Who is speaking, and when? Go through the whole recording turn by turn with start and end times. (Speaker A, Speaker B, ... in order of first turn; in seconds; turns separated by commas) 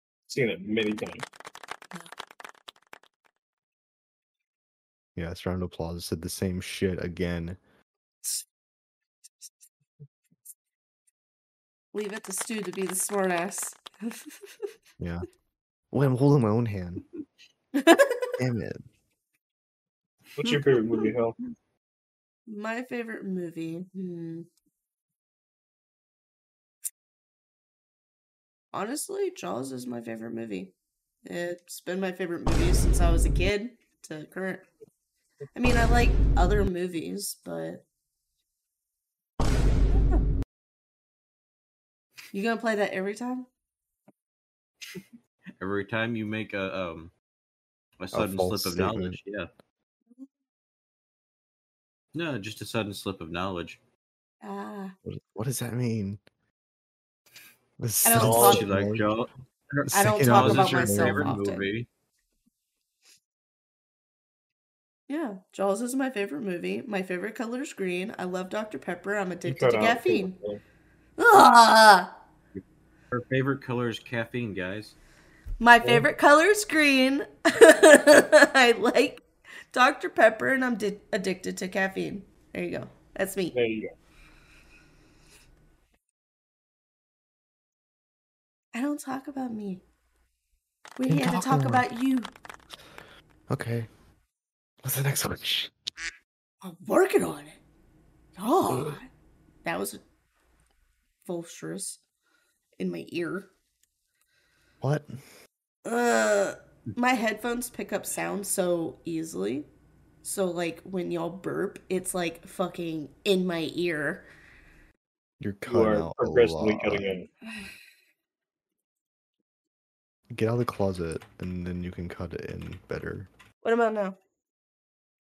Speaker A: 0.3-1.2, Speaker B: 5.2-7.6, Speaker C: 11.9-14.7, Speaker B: 15.0-15.3, Speaker B: 15.9-17.1, Speaker C: 17.7-18.3, Speaker B: 18.4-18.9, Speaker A: 20.4-21.4, Speaker D: 20.4-21.0, Speaker C: 22.5-24.5, Speaker C: 28.7-30.7, Speaker C: 31.2-34.6, Speaker C: 35.5-37.9, Speaker C: 39.9-40.2, Speaker C: 42.3-43.5, Speaker D: 45.6-47.1, Speaker D: 48.0-49.5, Speaker B: 48.1-49.2, Speaker D: 52.1-53.8, Speaker C: 54.4-55.0, Speaker B: 55.0-56.2, Speaker B: 57.8-59.1, Speaker C: 58.0-58.7, Speaker D: 58.1-61.9, Speaker B: 59.9-61.4, Speaker C: 59.9-61.7, Speaker C: 65.1-70.4, Speaker A: 69.5-70.6, Speaker C: 71.2-72.1, Speaker D: 72.5-75.0, Speaker C: 75.6-83.6, Speaker A: 83.5-83.9, Speaker C: 88.7-89.8, Speaker C: 91.0-92.3, Speaker B: 91.1-91.9, Speaker B: 93.5-93.9, Speaker B: 94.8-95.7, Speaker C: 96.6-97.6, Speaker C: 98.4-99.1, Speaker A: 98.7-99.0, Speaker C: 99.6-100.0, Speaker C: 101.2-102.0, Speaker C: 102.8-103.5, Speaker B: 104.8-105.2, Speaker C: 105.8-109.7, Speaker C: 110.2-114.3, Speaker B: 115.4-117.2, Speaker A: 115.7-117.3, Speaker B: 120.3-123.3, Speaker C: 123.6-124.2